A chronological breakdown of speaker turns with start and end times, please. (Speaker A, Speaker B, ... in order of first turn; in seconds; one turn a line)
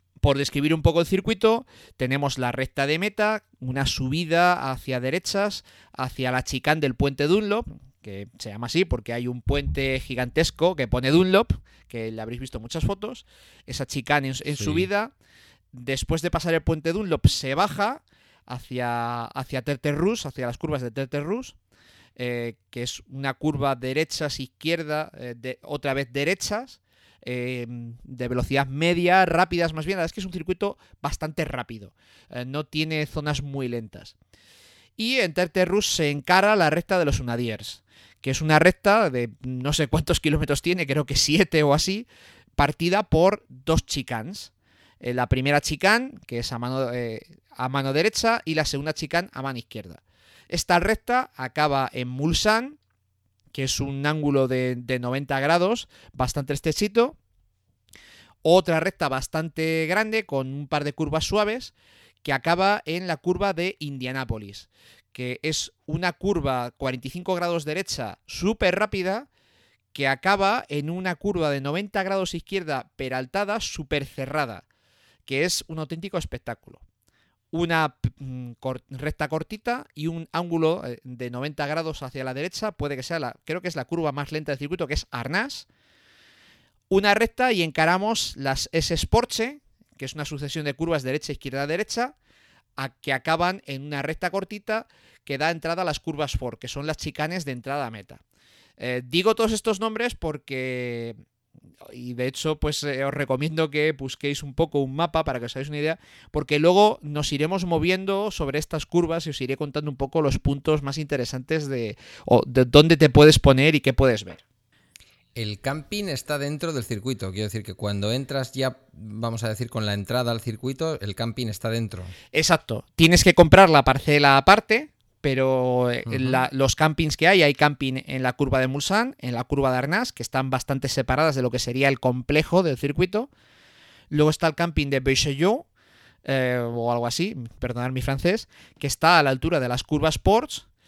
Speaker A: 0.2-15.1
Speaker B: 14.5-14.9
Speaker A: 15.7-21.6
Speaker A: 22.2-34.1
Speaker A: 35.0-42.0
Speaker A: 42.6-52.8
Speaker A: 53.5-57.2
Speaker A: 58.4-61.7
Speaker A: 62.2-69.3
Speaker A: 69.9-74.7
Speaker A: 75.2-76.8
Speaker A: 77.5-85.7
Speaker A: 86.9-92.1
Speaker A: 92.8-98.2
Speaker A: 98.8-101.2
Speaker A: 101.8-114.4
Speaker B: 115.3-122.1
Speaker A: 122.3-133.3
Speaker B: 126.0-126.4
Speaker A: 134.1-135.7
Speaker A: 136.2-140.7